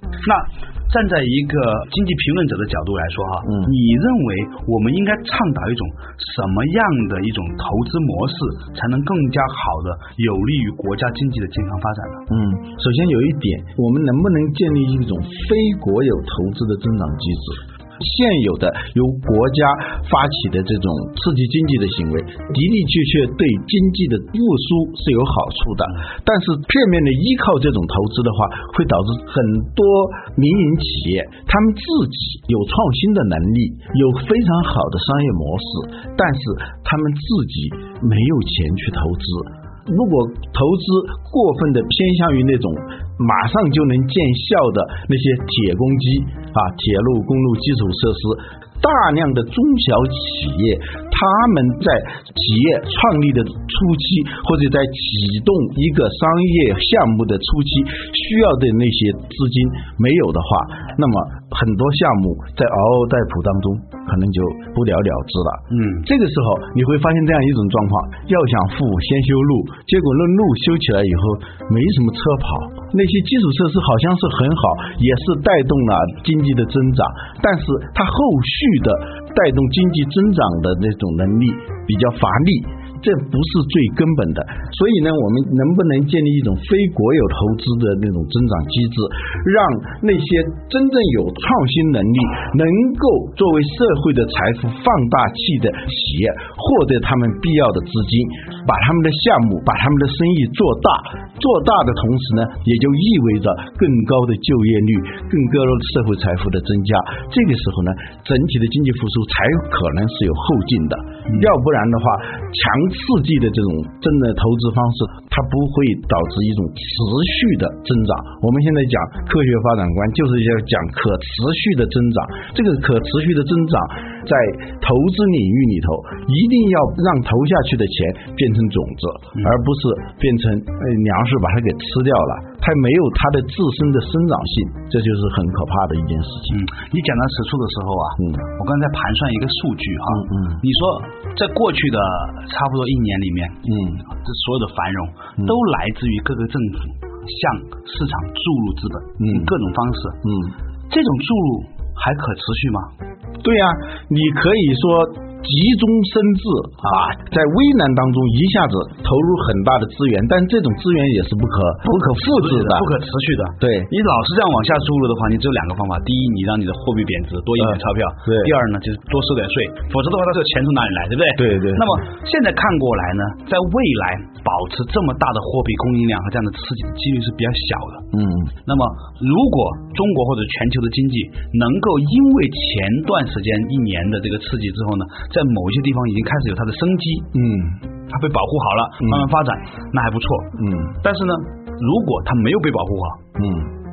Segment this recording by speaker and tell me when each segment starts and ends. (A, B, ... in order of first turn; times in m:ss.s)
0:00.2-0:12.2 A
0:03.4-0:03.7 B
0:12.3-2:16.6 B
1:05.7-1:06.0 A
2:16.5-2:30.2 A
2:20.1-2:20.6 B
2:23.6-2:24.0 B
2:29.2-2:29.5 B
2:30.2-2:30.5 B
2:30.9-2:32.9 A
2:33.4-2:42.9 B
2:41.9-2:58.1 A
2:43.6-2:43.9 B
2:48.2-2:48.5 B
2:51.4-2:52.0 B
2:58.1-2:58.5 B
2:58.6-3:07.3 A
3:07.3-3:07.8 B
3:08.1-3:13.2 A
3:10.6-3:10.9 B
3:13.4-3:13.7 B